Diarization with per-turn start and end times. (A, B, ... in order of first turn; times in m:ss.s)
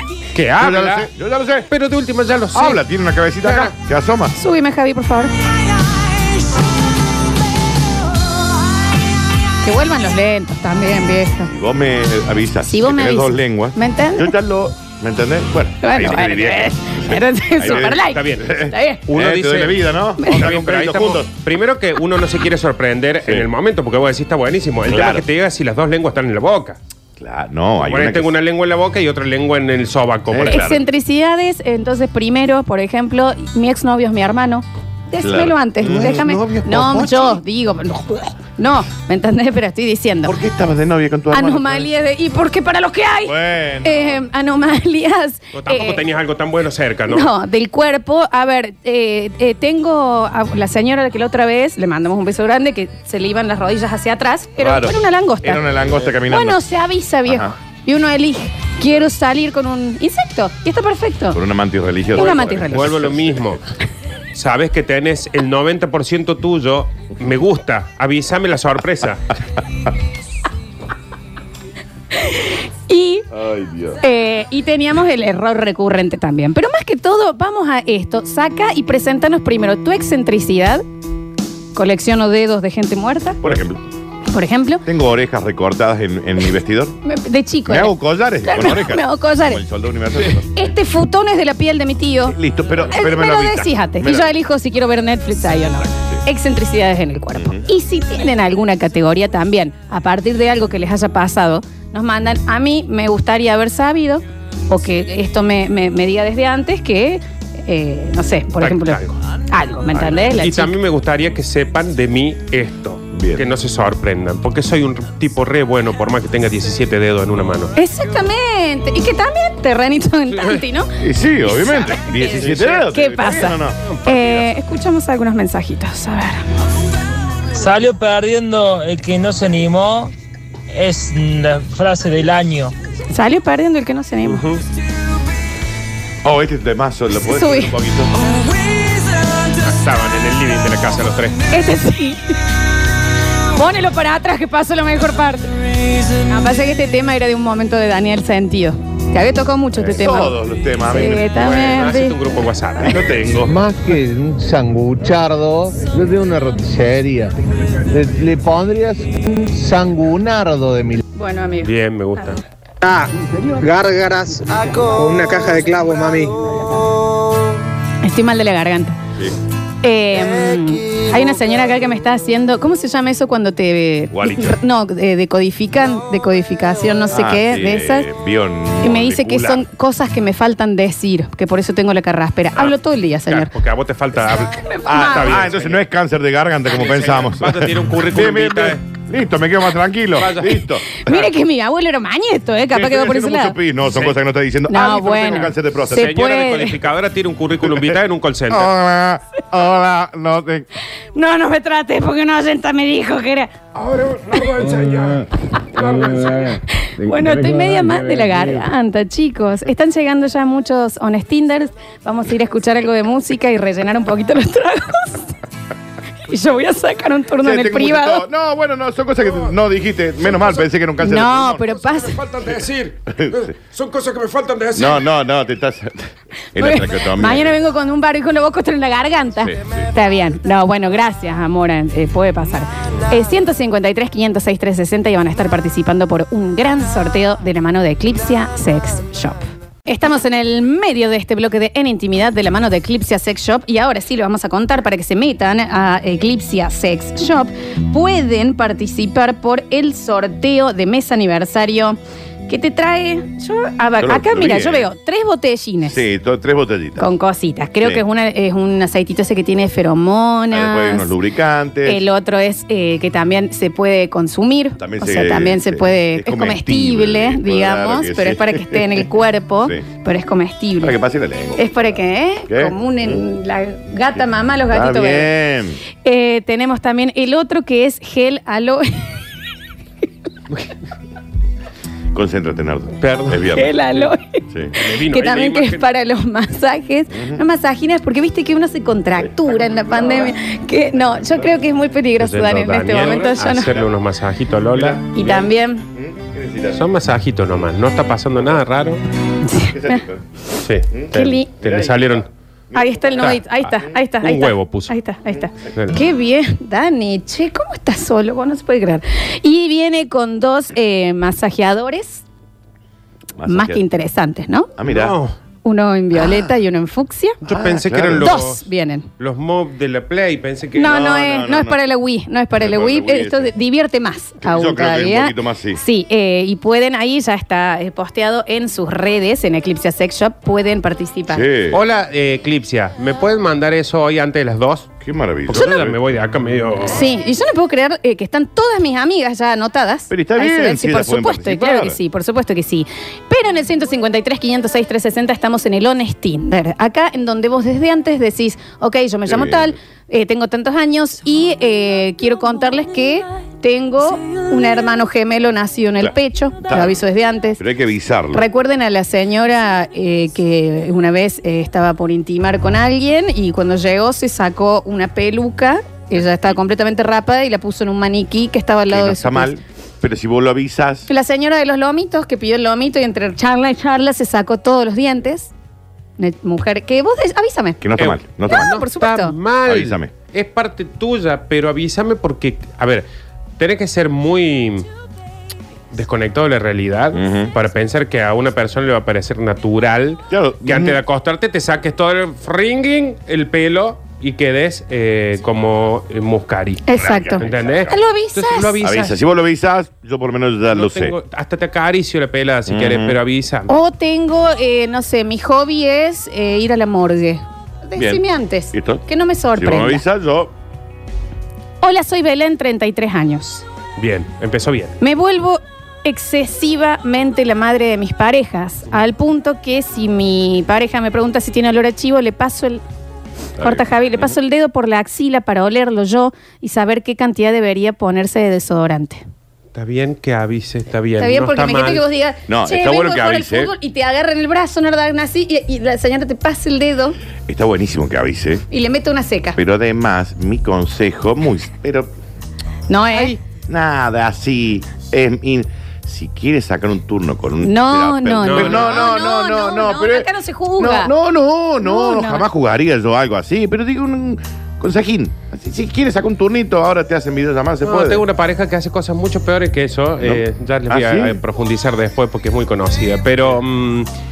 0:00.3-0:01.1 A
0:00.6-0:01.7 B
0:01.7-0:02.8 A
0:02.5-0:04.4 B
0:03.4-0:03.7 A
0:04.4-0:05.3 C
0:09.6-0:11.5 C
0:11.4-0:21.3 B
0:12.6-0:14.3 C
0:15.8-0:19.0 C
0:17.6-0:18.5 A
0:19.1-0:26.8 A
0:23.2-0:23.5 B
0:24.9-0:25.2 B
0:27.2-0:28.3 B
0:27.8-0:30.6 A
0:30.3-0:30.8 B
0:30.4-0:40.3 C
0:35.2-0:37.3 B
0:35.9-0:36.8 A
0:40.2-0:41.9 B
0:41.3-0:46.0 C
0:43.2-0:44.2 B
0:45.5-0:47.3 A
0:47.1-0:55.6 C
0:54.6-0:56.6 B
0:56.3-1:01.4 C
0:57.2-0:57.5 B
1:01.3-1:03.4 B
1:02.1-1:02.9 C
1:02.2-1:03.6 A
1:04.3-1:09.3 A
1:12.1-1:13.2 C
1:13.3-1:14.0 B
1:14.0-1:20.8 C
1:21.7-1:23.4 C
1:23.4-1:23.8 B
1:24.3-1:24.8 C
1:24.8-1:27.0 B
1:27.0-1:29.6 C
1:27.7-1:30.5 B
1:30.4-1:32.4 C
1:32.3-1:34.3 B
1:32.9-1:50.7 C
1:37.3-1:37.6 B
1:48.6-1:49.1 A
1:49.9-1:50.3 B
1:50.4-1:57.7 A
1:53.1-1:53.4 B
1:57.8-2:00.9 C
2:00.3-2:00.6 A
2:01.0-2:04.3 B
2:01.4-2:06.4 C
2:02.3-2:02.8 A
2:07.5-2:10.1 D
2:10.7-2:12.7 D
2:13.1-2:14.4 C
2:14.2-2:14.6 A
2:16.2-2:18.1 B
2:17.3-2:17.7 C
2:19.5-2:21.4 A
2:21.5-2:22.2 C
2:23.5-2:25.5 C
2:26.2-2:30.4 C
2:29.8-2:31.8 B
2:30.9-2:32.2 C
2:31.3-2:33.5 A
2:32.8-2:33.4 B
2:33.4-2:37.3 E
2:37.8-2:41.0 E
2:41.1-2:41.7 C
2:41.6-2:42.4 A
2:42.8-2:46.6 F
2:48.0-2:49.0 C
2:49.8-2:58.1 C
2:54.1-2:54.6 B
2:57.1-2:59.6 B
2:58.8-3:03.5 C
3:03.3-3:05.8 A
3:04.6-3:05.4 C
3:04.8-3:11.2 B
3:06.7-3:08.8 A
3:10.2-3:10.6 A
3:10.9-3:13.6 C
3:12.7-3:16.1 B
3:14.7-3:16.8 C
3:15.9-3:18.7 A
3:17.7-3:17.9 B
3:18.5-3:20.7 B
3:21.1-3:23.5 C
3:23.8-3:26.6 A
3:26.7-3:35.3 C
3:36.2-3:38.2 C
3:37.4-3:41.7 B
3:41.0-3:42.2 C
3:41.8-3:45.0 A
3:43.1-3:43.5 B
3:44.7-3:47.5 B
3:46.6-4:16.0 C
3:49.4-3:49.9 B
4:14.0-4:14.9 B
4:15.9-4:17.1 B
4:17.0-4:21.1 C
4:20.5-4:22.1 B
4:21.8-4:31.0 C
4:24.8-4:29.0 B
4:30.8-4:31.9 B
4:31.6-4:35.3 C
4:32.5-4:33.2 B
4:34.7-4:35.8 B
4:36.0-4:39.1 C
4:42.1-4:43.8 B
4:43.0-4:44.1 A
4:43.5-4:53.7 C
4:44.8-4:45.8 A
4:47.1-4:47.4 B
4:49.2-4:50.3 B
4:51.1-4:51.5 B
4:52.2-4:55.0 A
4:54.7-4:56.8 B
4:55.1-4:55.8 C
4:56.7-4:59.0 A
4:59.4-5:00.0 C
4:59.5-5:00.2 B
5:00.6-5:02.3 A
5:00.9-5:04.0 B
5:01.1-5:01.5 C
5:02.7-5:12.2 C
5:04.2-5:04.9 A
5:13.4-5:13.8 B
5:13.5-5:14.7 C
5:14.8-5:15.2 B
5:14.9-5:15.3 A
5:15.6-5:17.4 C
5:17.4-5:18.6 A
5:17.5-5:18.4 B
5:18.2-5:19.1 C
5:19.2-5:21.0 A
5:20.8-5:21.8 B
5:20.8-5:31.4 C
5:22.5-5:23.5 B
5:24.4-5:25.8 B
5:31.3-5:31.8 B
5:31.7-5:34.9 A
5:35.0-5:36.1 B
5:35.5-5:37.0 A
5:36.9-5:57.6 C
5:40.1-5:42.0 B
5:49.2-5:49.7 B
5:56.0-5:57.0 B
5:57.6-5:58.5 B
5:58.3-6:09.5 C
6:08.9-6:11.1 B
6:11.1-6:15.5 C
6:16.2-6:17.8 C
6:17.8-6:18.8 B
6:18.0-6:23.0 A
6:18.4-6:19.3 C
6:19.6-6:20.1 B
6:23.6-6:24.9 A
6:25.9-6:39.2 A
6:27.1-6:27.5 B
6:30.3-6:31.0 B
6:36.8-6:38.7 C
6:37.0-6:38.1 B
6:38.8-6:41.2 B
6:40.7-6:43.7 A
6:42.7-6:43.2 B
6:43.7-6:50.0 C
6:48.0-6:50.5 B
6:51.8-6:53.6 C
6:54.0-6:54.9 A
6:55.0-7:02.8 C
7:03.6-7:04.3 B
7:03.6-7:09.2 C
7:09.7-7:12.1 A
7:11.2-7:17.2 C
7:12.5-7:13.7 B
7:17.5-7:18.6 B
7:18.7-7:19.6 C
7:19.5-7:22.1 B
7:22.9-7:23.4 C
7:23.7-7:38.2 B
7:27.6-7:31.1 C
7:28.4-7:29.1 A
7:31.8-7:32.4 C
7:37.8-7:44.1 A
7:40.2-7:41.4 B